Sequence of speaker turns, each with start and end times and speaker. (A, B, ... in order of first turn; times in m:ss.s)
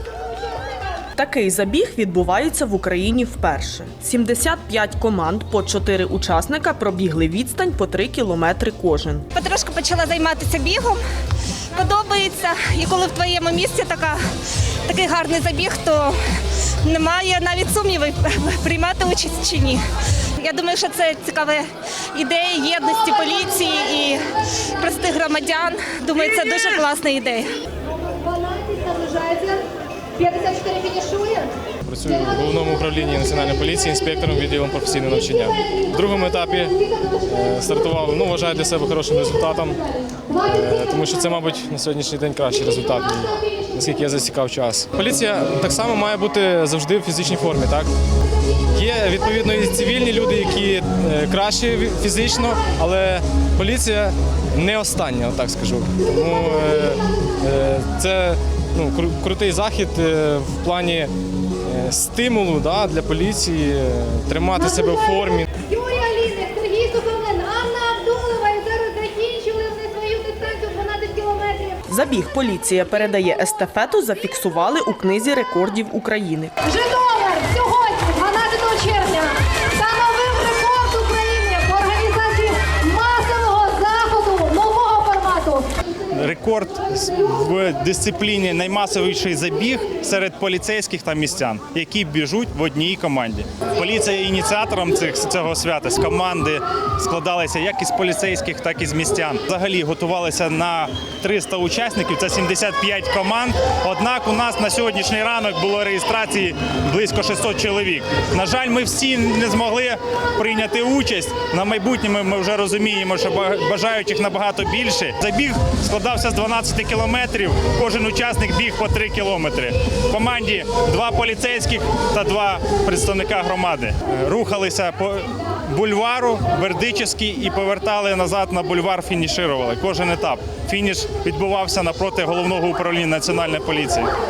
0:01.2-0:09.2 A
0:09.3-0:11.0 B
0:11.7-0:14.2 B
0:14.8-0:16.2 B
0:16.8-0:19.8 B
0:20.4-0:24.2 B
0:24.8-0:27.5 B
0:28.0-0:31.5 C
0:31.8-0:47.9 D
0:48.7-1:01.1 D
1:01.6-1:05.5 D
1:05.6-1:11.8 C
1:11.9-1:16.5 A
1:16.7-1:25.7 C
1:26.1-2:14.1 E